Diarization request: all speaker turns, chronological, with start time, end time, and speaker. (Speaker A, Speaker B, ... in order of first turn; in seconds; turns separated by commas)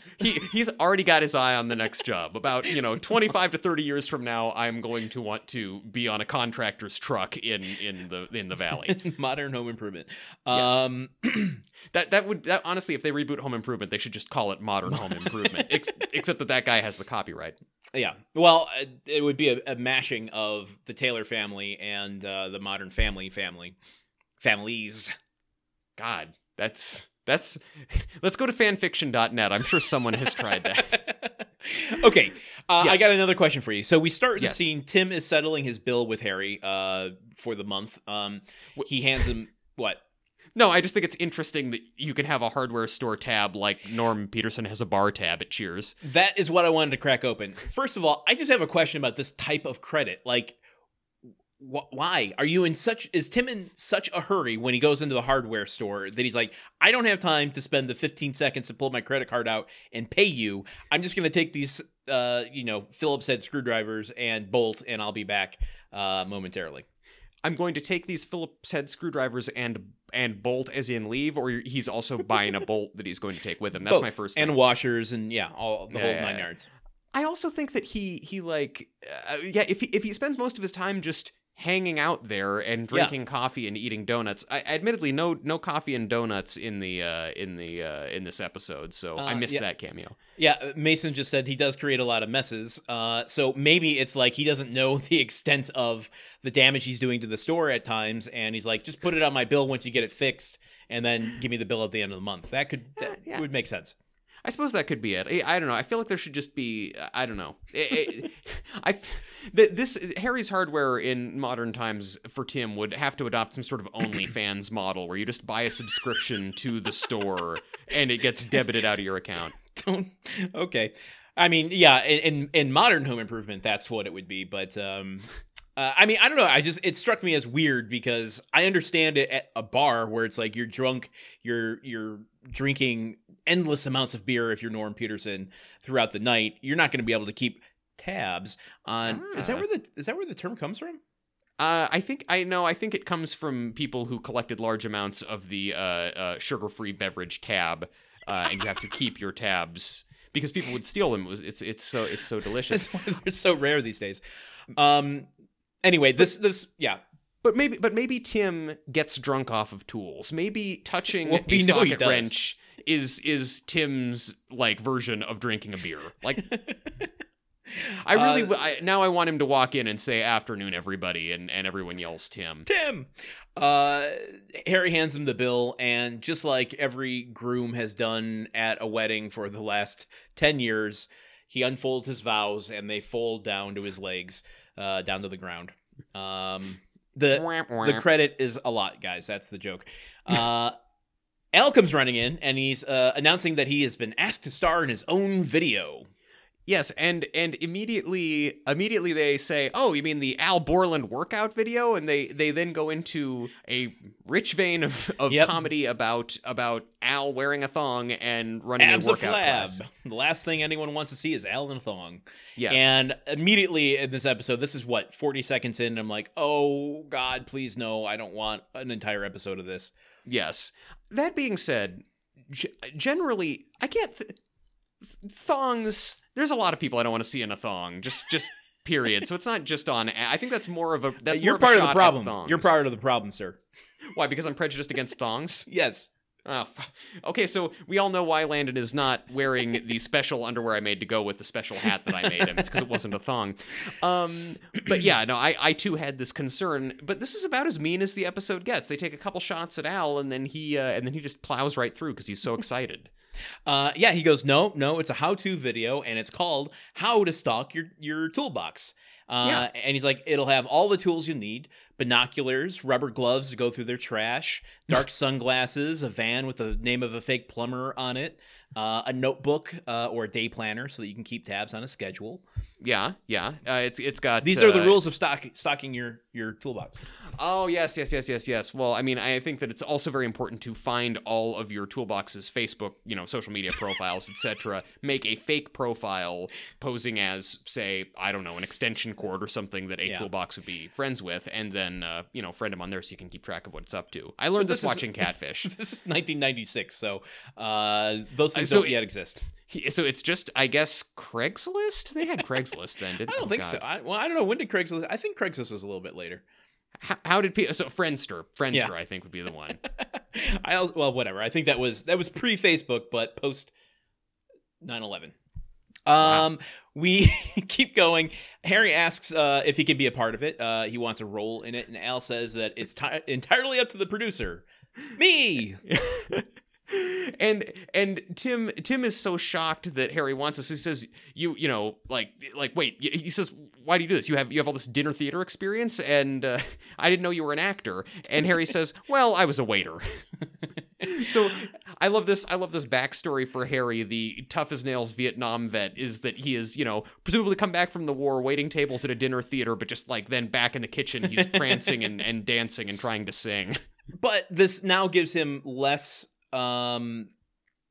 Speaker A: 0.2-9.0, Speaker B: 8.7-11.6, Speaker A: 10.5-10.8, Speaker A: 11.9-17.6, Speaker B: 14.9-15.7, Speaker B: 17.9-23.8, Speaker B: 24.4-25.1, Speaker A: 26.0-31.0, Speaker B: 30.4-40.0, Speaker A: 32.8-33.1, Speaker A: 34.4-34.7, Speaker A: 40.5-45.9, Speaker B: 46.0-50.6, Speaker B: 51.6-66.8, Speaker A: 67.4-74.6, Speaker B: 73.8-76.7, Speaker A: 75.9-76.4, Speaker A: 77.1-90.2, Speaker B: 89.2-89.6, Speaker B: 90.4-103.9, Speaker A: 103.0-103.4, Speaker A: 104.4-119.6, Speaker B: 119.7-141.0, Speaker A: 139.1-139.7, Speaker A: 141.6-152.9, Speaker B: 152.7-154.2, Speaker B: 154.7-155.3, Speaker B: 155.8-157.0, Speaker A: 157.4-166.5, Speaker B: 161.2-162.3, Speaker B: 166.4-167.1, Speaker B: 167.8-168.5, Speaker A: 168.0-172.7, Speaker B: 172.7-190.7, Speaker A: 187.3-188.0, Speaker B: 191.5-196.1, Speaker A: 196.7-209.8, Speaker B: 205.3-205.6, Speaker B: 208.8-219.9, Speaker A: 212.6-212.9, Speaker A: 220.3-224.4, Speaker A: 225.0-232.7, Speaker B: 231.3-233.6, Speaker A: 234.1-235.7, Speaker B: 235.7-236.1, Speaker A: 236.4-253.1, Speaker B: 253.7-272.4, Speaker A: 272.8-275.0, Speaker B: 274.4-277.0, Speaker A: 277.4-295.7, Speaker B: 294.6-299.4, Speaker A: 298.5-299.0, Speaker A: 299.6-303.8, Speaker B: 303.2-306.4, Speaker A: 307.0-309.8, Speaker B: 309.8-313.7, Speaker B: 314.8-315.3, Speaker B: 316.1-325.8, Speaker A: 316.2-316.5, Speaker A: 325.9-340.3, Speaker A: 341.0-353.8, Speaker B: 354.1-357.3